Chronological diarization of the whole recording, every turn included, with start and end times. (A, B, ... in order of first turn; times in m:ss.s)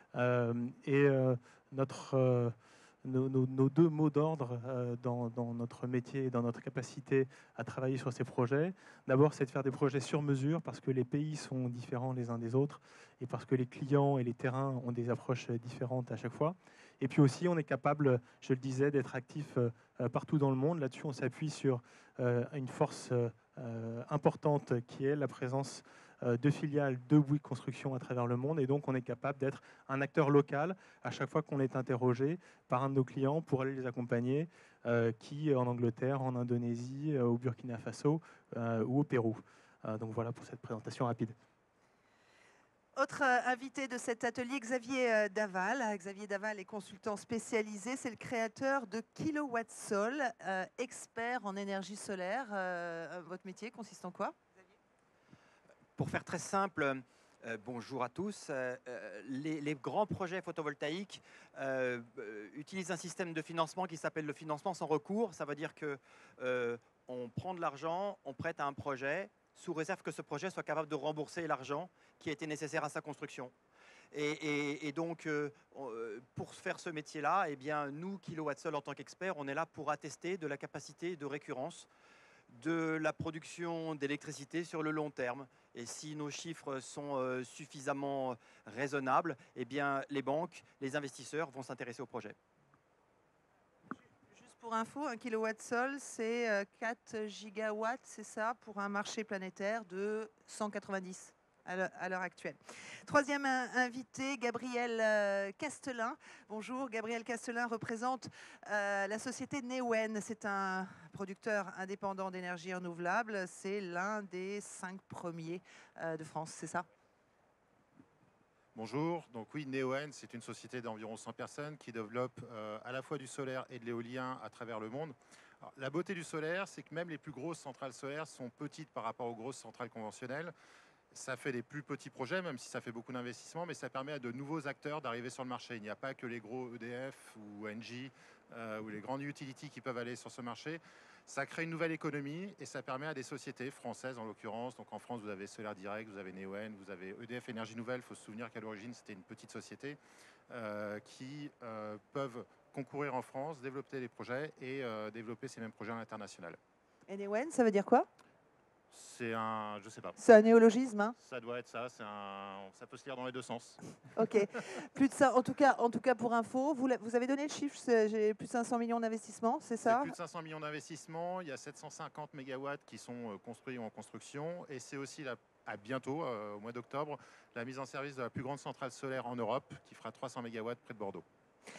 0:00.1-0:41.3 A
0:43.0-0:54.4 B
0:56.0-1:13.5 C
1:14.1-1:21.9 C
1:22.5-1:32.4 C
1:34.3-1:56.8 B
1:58.7-2:10.5 D
2:11.1-2:30.0 D
2:30.5-2:36.6 D
2:37.1-2:38.1 B
2:38.9-2:40.2 D
2:40.2-2:41.1 B
2:41.2-2:43.8 D
2:44.2-2:50.1 B
2:49.8-3:01.2 D